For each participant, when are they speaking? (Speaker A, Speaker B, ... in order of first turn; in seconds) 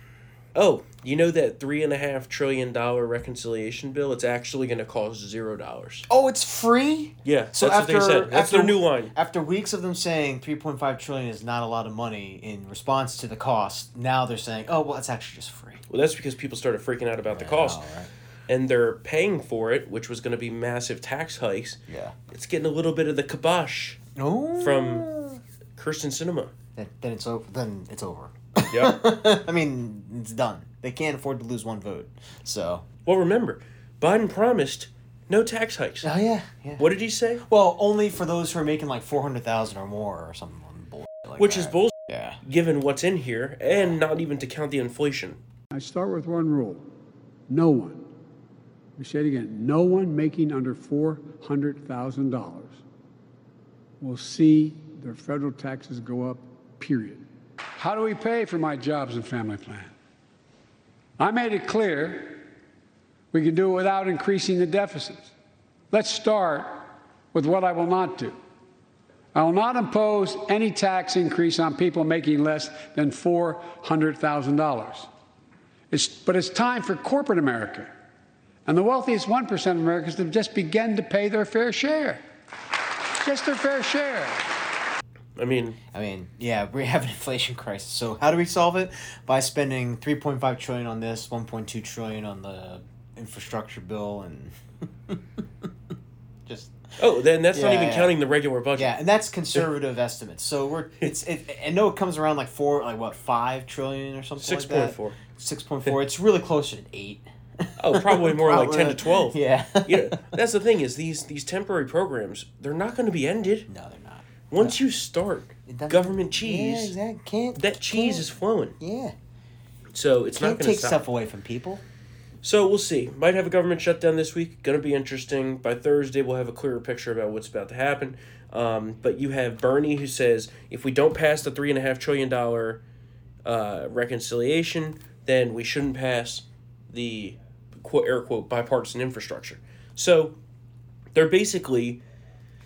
Speaker A: 0.6-6.1, 7.2-9.1, 15.9-17.8, 18.5-21.8, 22.3-24.0, 24.6-25.1, 25.8-26.5, 28.7-29.0, 33.1-36.1, 36.8-37.4, 41.4-45.4, 85.4-85.8, 97.0-98.9, 104.4-105.2, 107.8-113.7, 114.5-117.0, 117.6-118.8, 119.9-121.0, 122.4-132.8, 133.4-140.4, 141.2-142.0
Speaker B: 6.1-15.8, 17.3-18.1, 21.9-22.1, 24.2-25.4, 26.8-32.9, 36.0-36.9, 37.4-42.4, 43.7-44.0, 85.9-94.5, 95.1-95.4, 96.5-96.7, 97.5-98.2, 98.8-110.2, 113.7-114.8, 115.7-118.3, 118.8-119.1, 120.4-121.8
Speaker C: 45.7-46.9, 47.5-48.1, 49.0-52.8, 54.0-57.2, 57.8-59.9, 61.2-62.5, 63.3-65.3, 65.9-68.4, 69.3-75.1, 75.9-77.9, 78.7-82.2, 83.2-84.5